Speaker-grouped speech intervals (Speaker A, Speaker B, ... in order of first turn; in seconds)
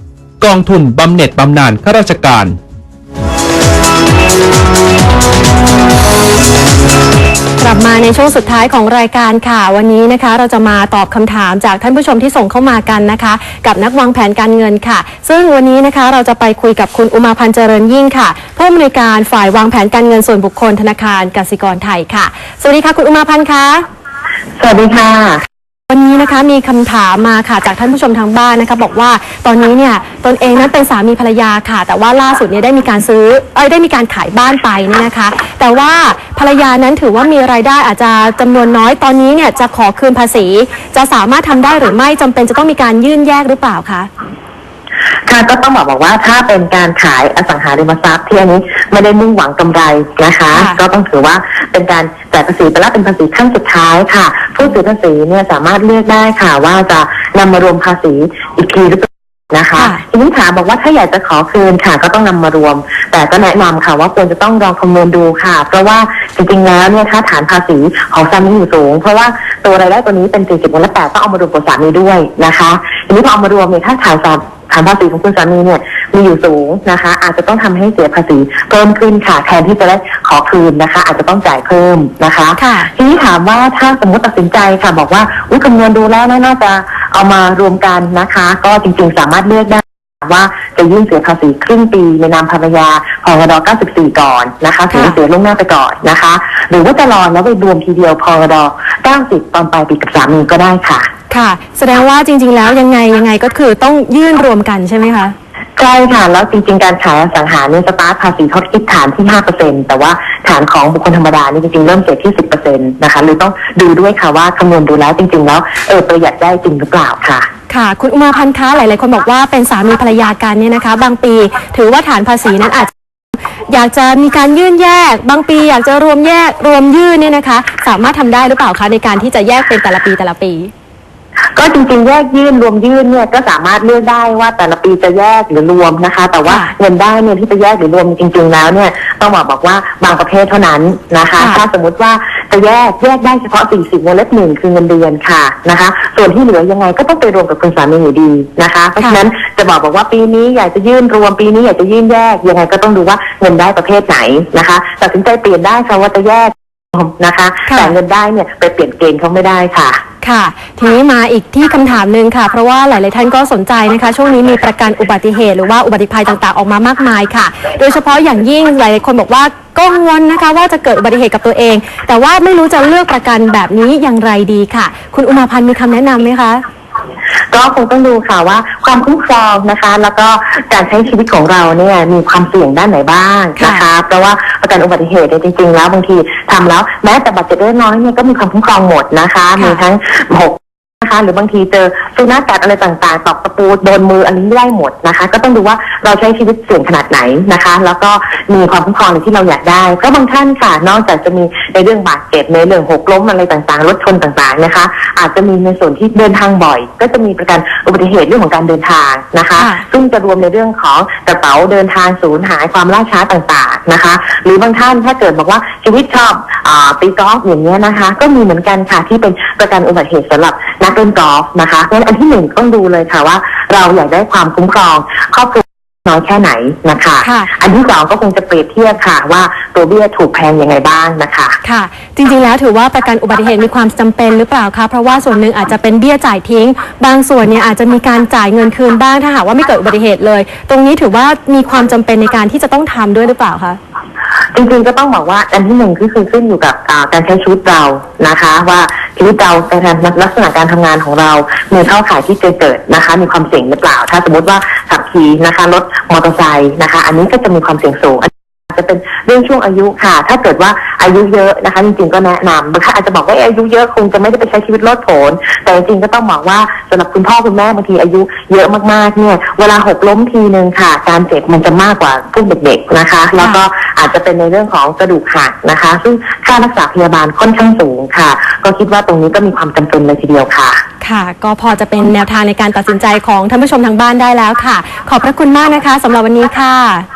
Speaker A: 0.4-2.6
Speaker B: 7.6-23.8, 25.9-44.1, 50.5-50.8, 59.8-60.0, 82.5-82.9, 94.9-95.2, 101.3-105.3, 117.7-122.9, 123.7-130.7, 136.4-136.7, 157.7-157.9, 160.2-176.6, 183.6-183.8, 189.6-189.8, 209.6-209.8, 227.2-227.5, 231.6-243.8, 281.0-287.1
Speaker C: 24.6-25.4, 45.3-101.1, 105.8-117.5, 131.5-160.0, 177.5-231.6, 244.5-280.8